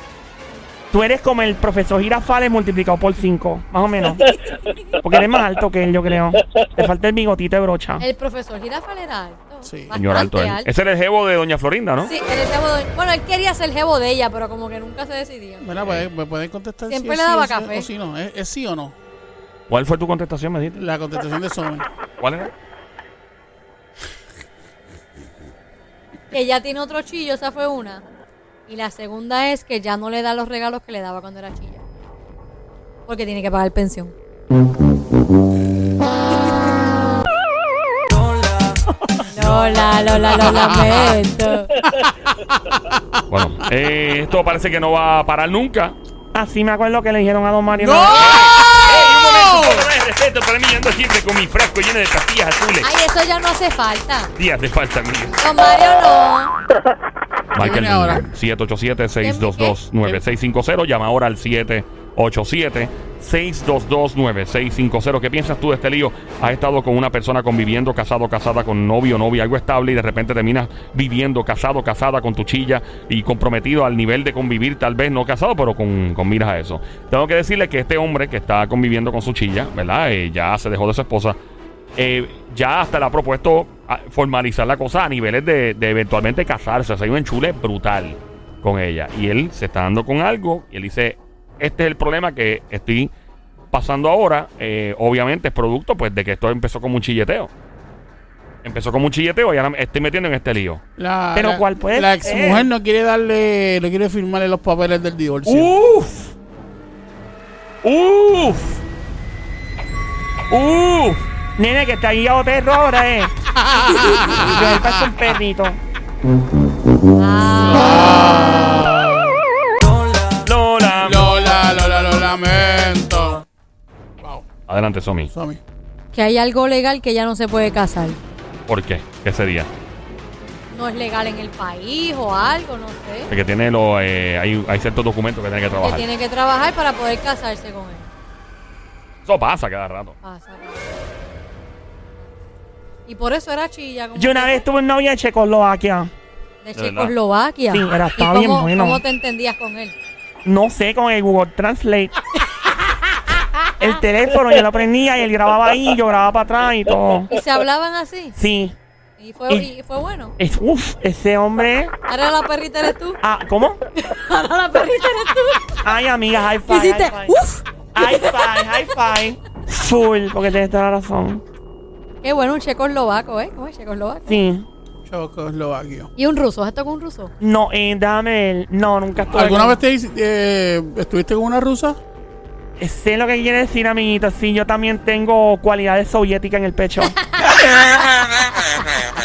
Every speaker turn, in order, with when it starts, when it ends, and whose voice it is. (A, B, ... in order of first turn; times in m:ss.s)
0:00.9-0:04.3 A
0:05.0-0:08.0 A
0:08.0-0:10.7 B
0:09.6-0:10.0 C
0:09.9-0:12.1 D
0:12.0-0:15.7 B
0:15.6-0:18.9 C
0:15.8-0:16.1 D
0:16.9-0:17.9 B
0:19.7-0:20.8 D
0:20.8-0:21.8 C
0:22.2-0:22.5 D
0:26.3-0:28.0 B
0:28.7-0:31.8 B
0:33.1-0:34.1 B
0:39.3-0:41.7 B
0:39.3-0:41.2 C
0:41.8-0:43.2 C
0:43.3-0:46.0 D
0:46.3-0:48.3 A
0:47.7-0:49.9 C
0:48.1-0:52.9 D
0:52.8-0:54.3 B
0:54.4-0:55.4 D
0:55.4-0:56.5 B
0:57.5-1:21.4 D
0:57.5-0:58.2 C
0:59.2-0:59.8 B
1:22.0-1:33.1 D
1:33.7-1:37.5 D
1:38.6-1:40.8 D
1:41.0-1:45.7 C
1:41.3-1:42.7 A
1:45.4-1:46.3 D
1:47.8-1:48.8 D
1:50.5-1:51.2 D
1:51.6-1:53.3 A
1:53.5-1:55.2 C
1:54.1-1:55.8 A
1:57.2-1:58.0 B
1:57.4-1:59.4 C
2:00.4-2:01.4 D
2:01.0-2:03.4 C
2:04.2-2:04.4 C
2:04.7-2:05.3 D
2:05.3-2:05.6 C
2:06.1-2:08.2 B
2:08.7-2:09.7 D
2:10.7-2:13.3 B
2:13.3-2:16.0 D
2:15.8-2:18.1 B
2:19.2-2:20.2 D
2:20.2-2:21.0 B
2:23.0-2:24.6 B
2:24.2-2:26.1 A
2:26.6-2:29.9 B
2:26.8-2:27.1 D
2:27.7-2:29.0 A
2:30.4-2:32.1 A
2:33.8-2:37.3 A
2:37.3-2:38.3 B
2:38.4-2:38.7 A
2:39.2-2:40.3 B
2:40.4-2:41.9 A
2:42.1-2:43.2 B
2:43.2-2:43.8 A
2:43.9-2:45.8 B
2:45.8-2:47.4 A
2:46.7-2:48.6 B
2:47.9-2:51.4 A
2:52.2-2:54.3 B
2:54.3-2:54.6 A
2:55.0-2:56.1 C
2:56.2-2:57.3 B
2:57.4-2:59.8 A
2:59.3-3:02.0 C
3:02.8-3:07.2 A
3:07.2-3:07.8 B